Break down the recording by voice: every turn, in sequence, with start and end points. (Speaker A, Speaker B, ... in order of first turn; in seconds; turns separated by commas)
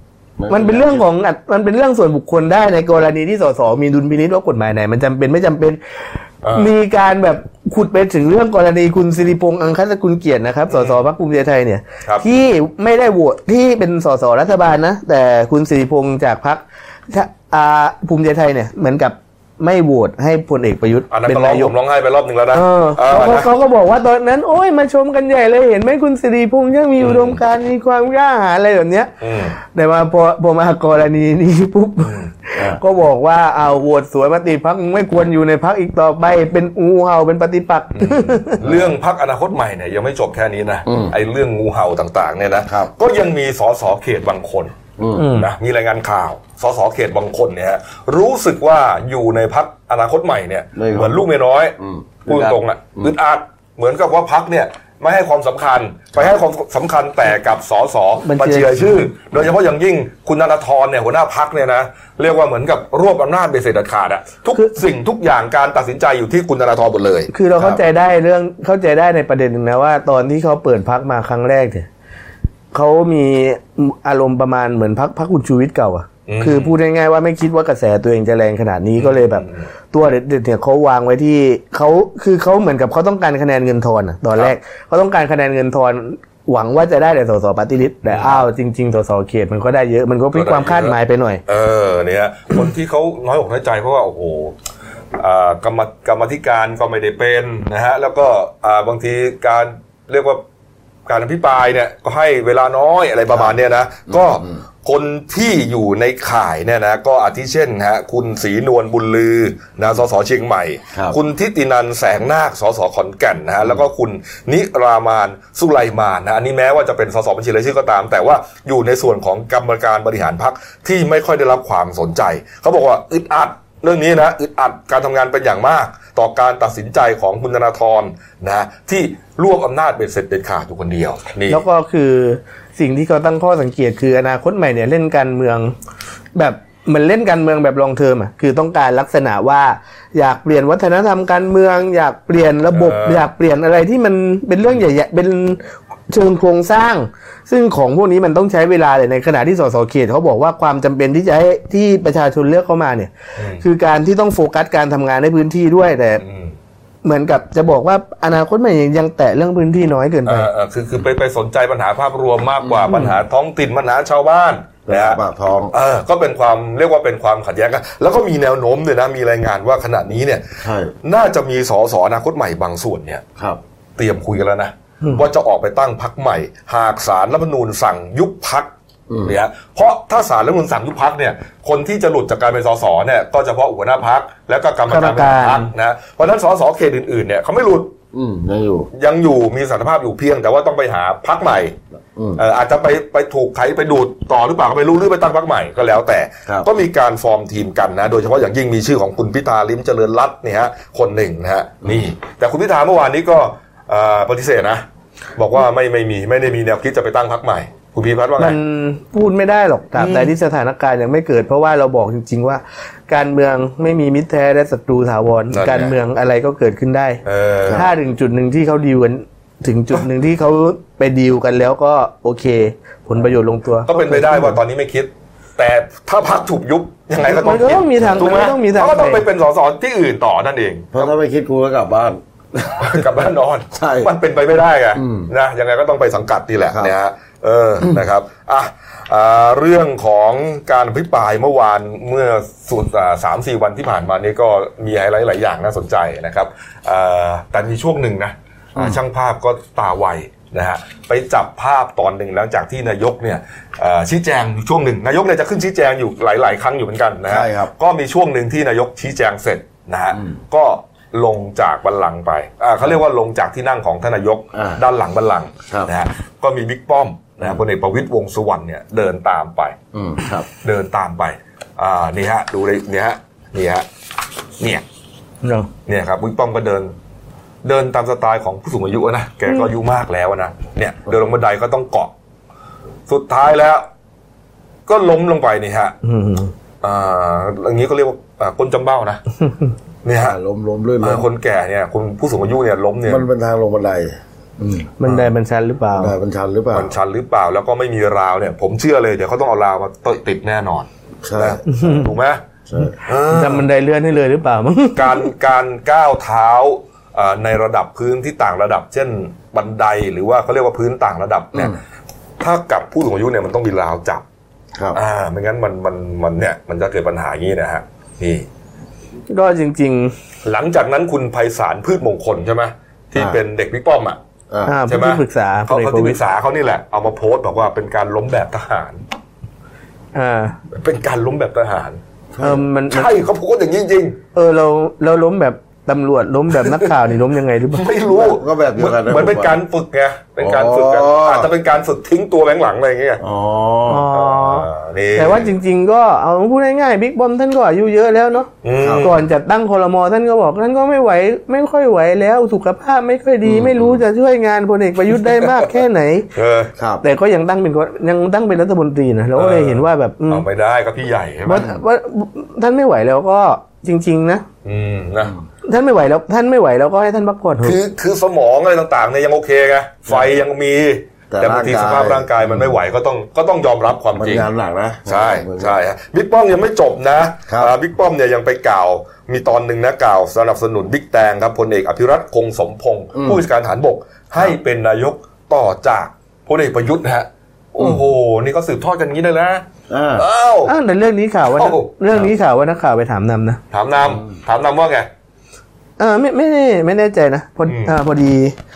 Speaker A: 0.4-1.1, Speaker B: 0.5-5.8, Speaker C: 6.4-6.7, Speaker B: 6.5-21.7, Speaker C: 10.7-11.0, Speaker C: 21.1-23.5, Speaker B: 22.5-38.6, Speaker C: 27.0-27.4, Speaker C: 29.2-29.6, Speaker A: 32.6-32.8, Speaker C: 38.0-67.3, Speaker A: 38.6-38.9, Speaker A: 40.9-41.1, Speaker A: 45.0-45.3, Speaker B: 45.2-45.5, Speaker A: 50.8-51.3, Speaker A: 51.8-53.1, Speaker B: 58.2-58.9, Speaker B: 67.3-71.9, Speaker B: 72.7-91.4, Speaker C: 76.3-76.8, Speaker C: 79.0-79.7, Speaker C: 88.0-88.4, Speaker C: 90.3-91.0, Speaker C: 91.5-94.5, Speaker C: 95.2-100.4, Speaker C: 101.1-131.6, Speaker A: 104.1-104.6, Speaker B: 131.5-135.7, Speaker B: 136.3-153.1, Speaker C: 142.7-143.3, Speaker C: 153.4-153.6, Speaker B: 153.6-156.2, Speaker C: 156.2-156.5, Speaker B: 157.0-160.5, Speaker C: 160.3-165.2, Speaker A: 162.6-163.2, Speaker A: 164.9-165.7, Speaker C: 165.7-170.4, Speaker A: 170.6-170.9, Speaker C: 171.0-173.2, Speaker C: 174.0-178.7, Speaker A: 179.1-179.3, Speaker C: 179.2-187.9, Speaker B: 184.9-185.7, Speaker A: 188.1-188.9, Speaker C: 188.9-191.8, Speaker A: 192.2-192.4, Speaker C: 192.4-204.8, Speaker C: 205.4-208.6, Speaker B: 208.4-224.6, Speaker C: 210.0-210.3, Speaker C: 215.5-215.9, Speaker C: 217.2-217.8, Speaker C: 223.8-231.1, Speaker B: 227.2-229.2, Speaker A: 230.9-233.1, Speaker C: 232.8-269.8, Speaker A: 233.7-234.1, Speaker A: 234.9-235.3, Speaker A: 257.3-257.7, Speaker A: 264.5-264.8, Speaker A: 269.9-270.5, Speaker C: 270.6-273.9, Speaker C: 274.6-274.8, Speaker B: 275.4-275.7, Speaker C: 275.9-276.9, Speaker C: 277.6-282.1, Speaker C: 283.1-283.9, Speaker C: 284.9-286.0, Speaker B: 286.0-286.5, Speaker C: 286.8-289.2, Speaker C: 290.0-290.4, Speaker A: 290.2-291.3, Speaker C: 291.0-293.3, Speaker A: 293.1-295.2, Speaker B: 295.0-296.2, Speaker A: 295.9-296.9, Speaker C: 296.7-302.4, Speaker A: 301.2-301.6, Speaker B: 301.7-302.1, Speaker A: 302.7-303.0, Speaker C: 303.0-303.6, Speaker B: 303.3-305.3, Speaker C: 304.9-311.8, Speaker C: 312.4-314.2, Speaker C: 314.9-318.5, Speaker B: 319.3-320.1, Speaker C: 320.4-324.2, Speaker A: 324.5-324.8, Speaker B: 324.7-326.2, Speaker C: 324.9-329.0, Speaker B: 330.1-330.6, Speaker C: 330.7-332.0, Speaker A: 332.4-332.6, Speaker B: 332.4-333.1, Speaker C: 332.9-334.2, Speaker B: 334.4-337.9, Speaker C: 337.7-343.2, Speaker A: 338.0-339.6, Speaker A: 340.4-341.5, Speaker A: 343.2-344.1, Speaker B: 343.9-356.3, Speaker C: 344.1-345.5, Speaker C: 348.6-349.1, Speaker A: 348.8-349.1, Speaker A: 353.4-354.0, Speaker C: 356.4-356.7, Speaker A: 356.8-357.1, Speaker B: 357.0-360.4, Speaker C: 359.4-361.7, Speaker B: 361.5-364.4, Speaker C: 364.6-365.3, Speaker B: 365.7-367.8, Speaker C: 367.6-374.5, Speaker A: 371.3-372.8, Speaker A: 374.1-375.8, Speaker C: 375.1-389.6, Speaker A: 377.5-377.7, Speaker A: 383.1-383.4, Speaker A: 389.9-390.3, Speaker C: 390.1-390.7, Speaker B: 390.7-393.6, Speaker C: 391.6-391.9, Speaker C: 393.7-395.1, Speaker B: 396.0-398.6, Speaker C: 397.7-397.9